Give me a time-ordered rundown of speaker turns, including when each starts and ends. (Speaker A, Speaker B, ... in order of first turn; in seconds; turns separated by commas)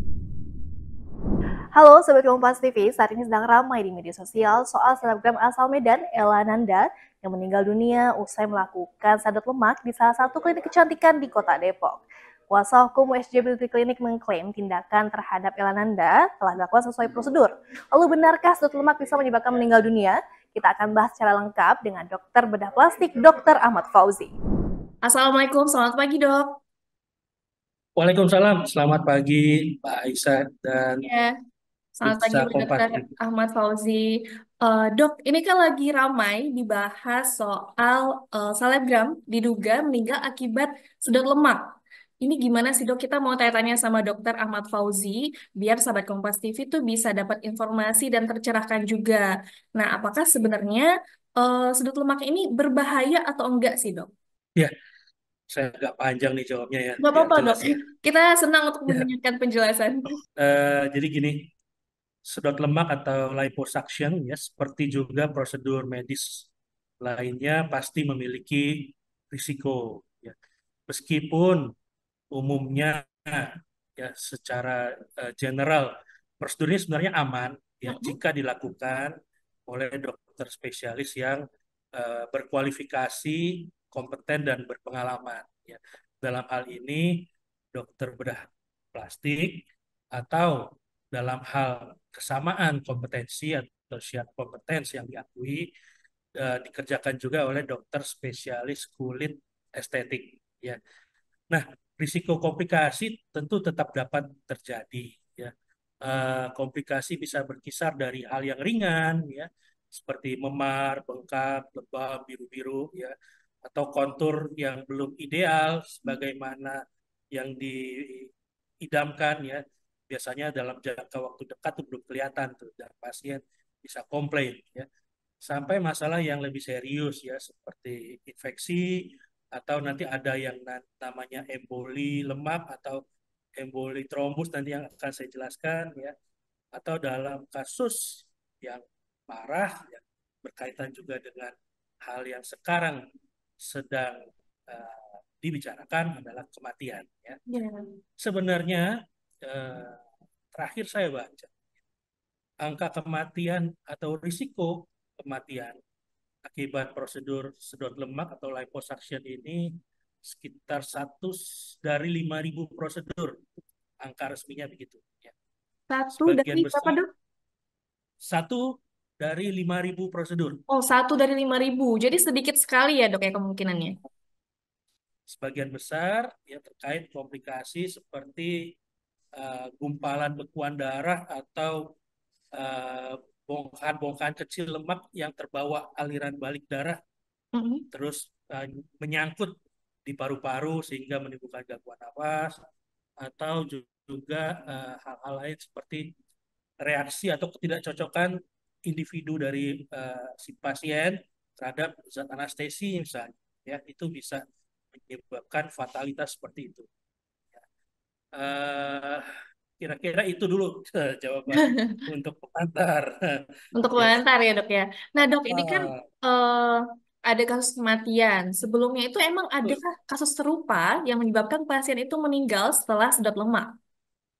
Speaker A: 1.7-24.3, Speaker B: 25.0-26.6, Speaker C: 27.9-31.1, Speaker B: 31.0-31.3, Speaker B: 32.0-41.6, Speaker C: 32.0-33.1, Speaker B: 42.2-54.1, Speaker C: 55.5-57.8, Speaker B: 57.0-60.1, Speaker C: 60.4-61.5, Speaker C: 62.3-66.5, Speaker C: 67.0-70.3, Speaker C: 70.9-71.7, Speaker C: 72.3-75.9, Speaker C: 76.4-79.1, Speaker B: 77.9-78.2, Speaker C: 79.7-81.4, Speaker C: 81.9-95.7, Speaker C: 96.4-100.8, Speaker C: 101.5-105.5, Speaker C: 106.0-113.1, Speaker C: 113.6-116.8, Speaker C: 117.3-118.3, Speaker C: 118.8-124.9, Speaker C: 125.4-133.0, Speaker C: 133.6-136.1, Speaker C: 136.7-143.0, Speaker C: 143.6-147.4, Speaker B: 147.5-147.8, Speaker C: 148.2-148.9, Speaker C: 149.4-151.5, Speaker C: 152.6-155.8, Speaker C: 156.4-159.7, Speaker C: 160.2-163.4, Speaker C: 164.0-165.3, Speaker B: 165.9-167.1, Speaker C: 166.2-167.0, Speaker C: 168.2-170.6, Speaker B: 170.7-173.9, Speaker C: 175.3-178.6, Speaker C: 179.3-181.8, Speaker C: 182.5-187.0, Speaker B: 187.5-187.8, Speaker C: 187.9-189.5, Speaker C: 190.1-192.6, Speaker C: 193.2-196.1, Speaker C: 196.8-198.3, Speaker C: 198.8-204.4, Speaker C: 204.9-206.8, Speaker C: 208.3-209.2, Speaker C: 209.8-213.4, Speaker B: 211.5-212.0, Speaker B: 213.7-223.7, Speaker C: 213.9-214.2, Speaker C: 215.2-216.0